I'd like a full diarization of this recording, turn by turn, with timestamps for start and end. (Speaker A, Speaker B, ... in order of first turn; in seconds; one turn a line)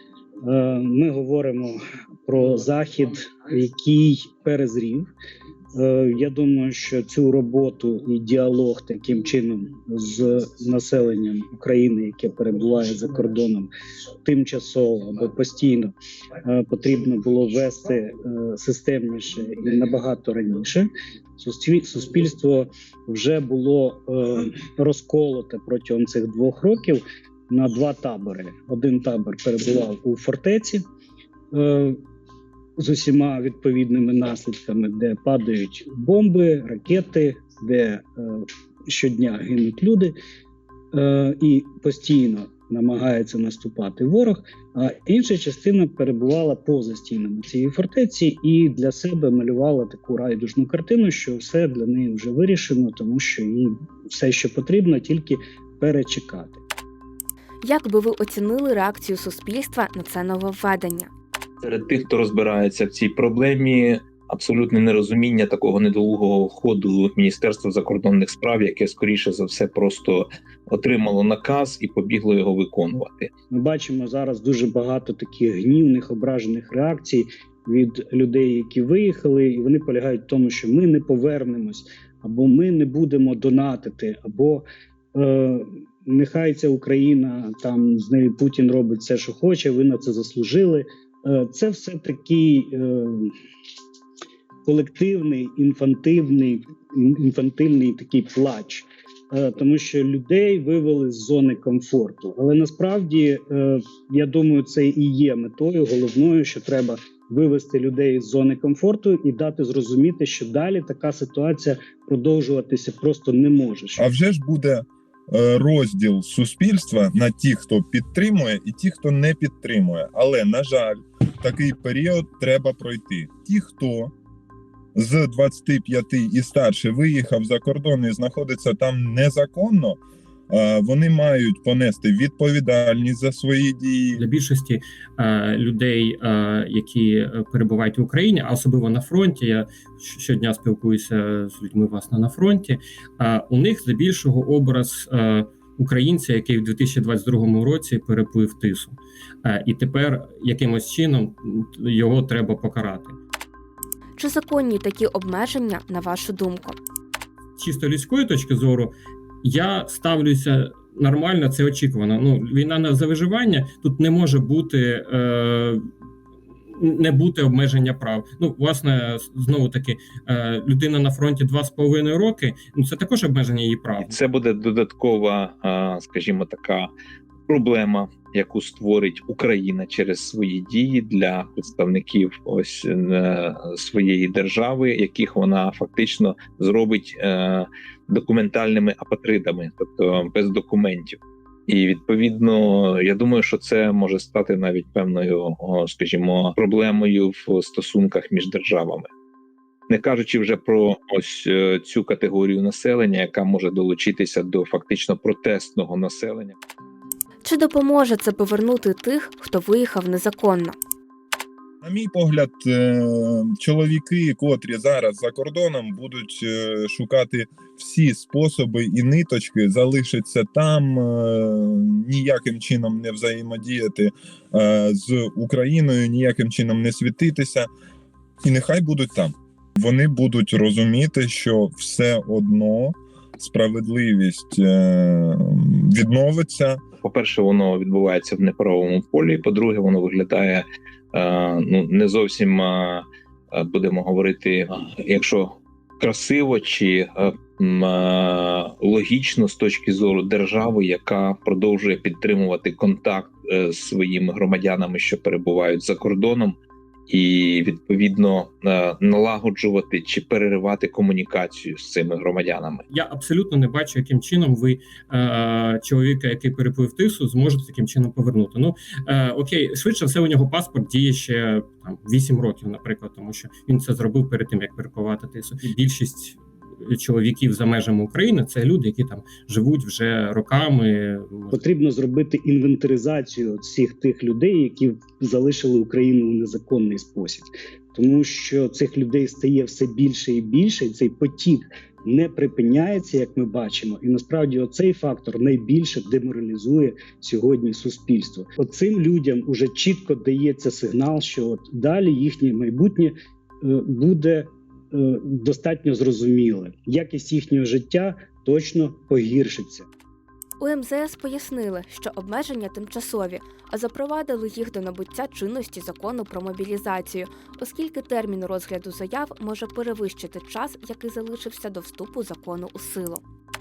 Speaker A: 0.4-5.1
Speaker A: 5.7-13.7
Speaker A: 14.2-15.9
Speaker A: 16.4-30.8
Speaker A: 31.5-32.0
Speaker A: 32.8-40.2
Speaker A: 40.9-56.6
Speaker B: 57.6-61.1
Speaker C: 61.6-73.3
Speaker A: 73.5-93.3
Speaker A: 94.7-114.0
Speaker D: 114.0-124.1
Speaker D: 125.0-130.0
Speaker D: 130.5-134.2
Speaker E: 134.1-153.2
Speaker B: 154.2-156.8
Speaker E: 157.6-165.9
Speaker E: 166.7-174.2
Speaker C: 174.0-176.9
Speaker C: 177.5-199.1
Speaker C: 199.9-206.6
Speaker B: 207.4-210.8
Speaker D: 211.8-227.7
Speaker D: 228.4-236.8
Speaker C: 237.0-256.6
Speaker C: 257.1-262.9
Speaker E: 262.9-281.6
Speaker A: 281.5-309.9
Speaker B: 310.6-323.2